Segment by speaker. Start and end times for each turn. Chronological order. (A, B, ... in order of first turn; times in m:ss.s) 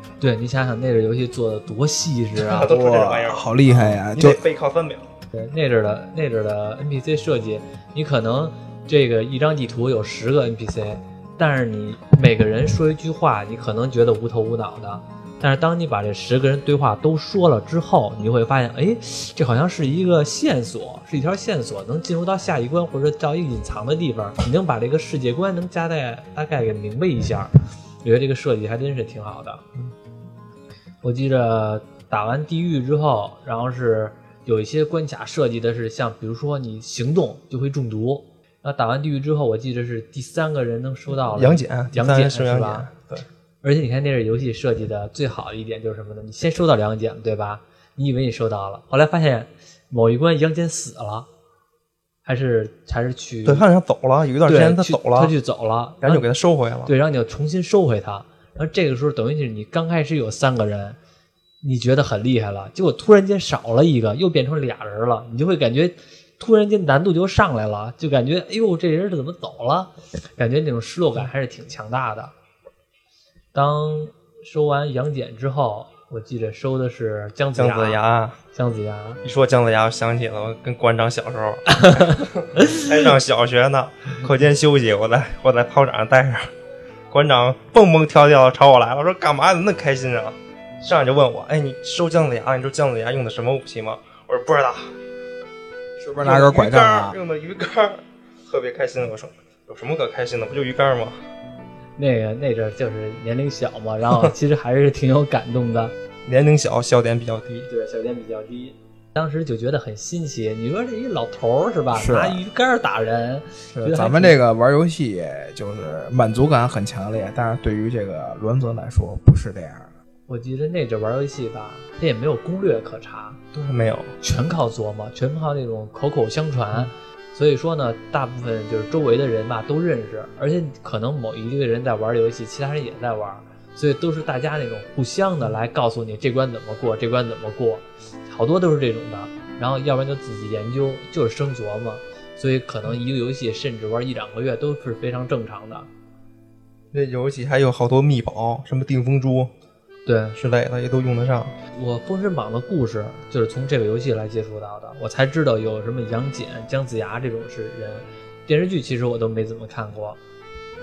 0:00.2-0:02.7 A
0:02.3-0:05.1 B
0:02.7-0:04.4 C
0:05.3-0:29.6 A
0:31.0-0:42.9 A
0:41.3-0:43.2 B
0:43.6-0:51.3 A
0:52.2-0:53.6 A
0:53.4-0:55.3 B
0:54.4-0:56.2 A
0:56.0-0:56.9 B
0:56.8-1:01.0 A
1:01.6-1:12.3 A
1:13.5-1:18.0 A
1:17.6-1:18.4 B
1:18.5-1:19.2 A
1:19.2-1:26.5 B
1:21.7-1:22.8 A
1:27.1-1:34.9 B
1:36.0-1:37.2 C
1:36.2-1:41.2 B
1:42.0-1:45.9 A
1:46.2-1:47.7 B
1:47.7-1:54.4 A
1:51.9-1:52.4 C
1:53.8-1:59.9 C
2:00.3-2:03.4 A
2:03.5-2:04.1 B
2:04.2-2:25.9 A
2:26.9-2:29.5 B
2:30.0-2:30.4 A
2:30.3-2:31.5 B
2:31.7-2:40.2 A